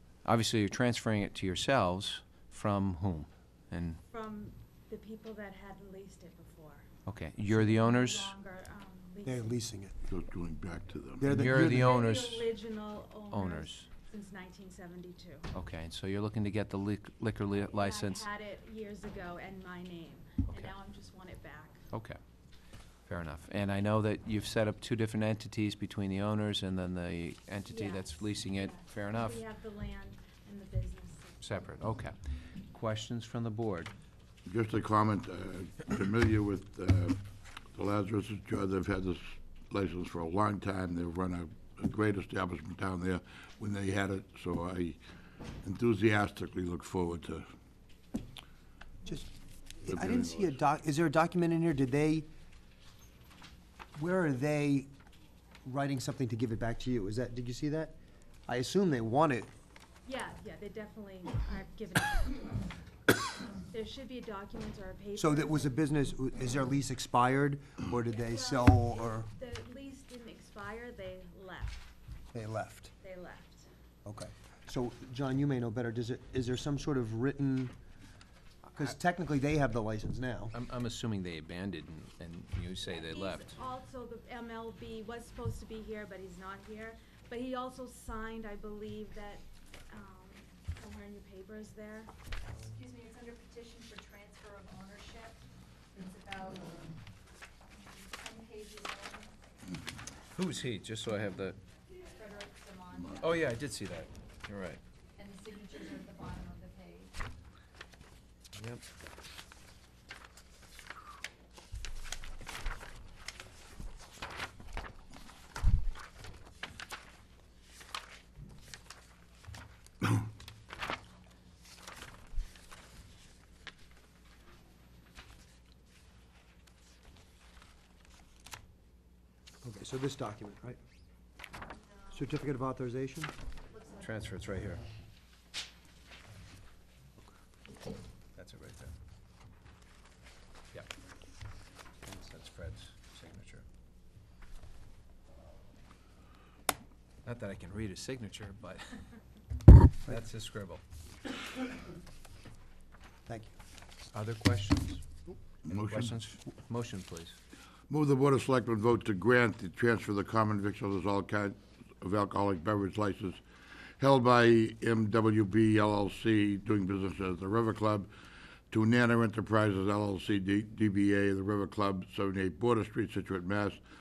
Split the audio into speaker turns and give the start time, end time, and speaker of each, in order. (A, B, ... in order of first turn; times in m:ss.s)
0:00.2-0:04.0 A
0:04.1-0:06.9 B
0:07.1-0:08.3 A
0:07.4-0:09.6 B
0:09.2-0:10.0 C
0:10.1-0:11.6 D
0:11.2-0:11.9 C
0:11.3-0:12.5 A
0:11.8-0:15.5 B
0:13.3-0:13.9 A
0:15.5-0:18.3 A
0:17.6-0:21.8 B
0:21.9-0:22.2 A
0:23.1-0:29.4 A
0:27.7-0:31.7 B
0:31.4-0:33.9 A
0:34.5-0:37.2 D
0:37.7-0:45.0 D
0:45.6-0:47.5 D
0:49.8-0:52.3 C
0:49.9-0:50.6 D
0:54.0-0:54.9 C
0:55.6-0:59.5 C
1:00.0-1:02.7 B
1:03.6-1:05.7 B
1:05.2-1:09.3 C
1:08.1-1:11.9 B
1:12.3-1:12.9 C
1:13.0-1:13.7 B
1:14.0-1:17.7 C
1:18.8-1:20.5 C
1:20.5-1:23.6 A
1:22.9-1:32.1 B
1:32.6-1:35.4 E
1:35.9-1:36.8 E
1:37.8-1:39.4 E
1:40.3-1:41.6 A
1:42.1-1:43.4 E
1:43.1-1:44.8 A
1:45.2-1:47.1 E
1:48.6-1:48.8 A
2:09.6-2:10.8 C
2:12.1-2:13.3 C
2:14.0-2:14.8 A
2:18.4-2:18.9 A
2:22.0-2:23.6 A
2:27.2-2:29.0 A
2:30.0-2:30.8 A
2:33.3-2:33.6 C
2:34.1-2:35.0 A
2:35.6-2:36.1 D
2:35.7-2:37.4 A
2:37.9-2:43.4 D
2:44.0-2:48.1 D
2:48.7-2:53.8 D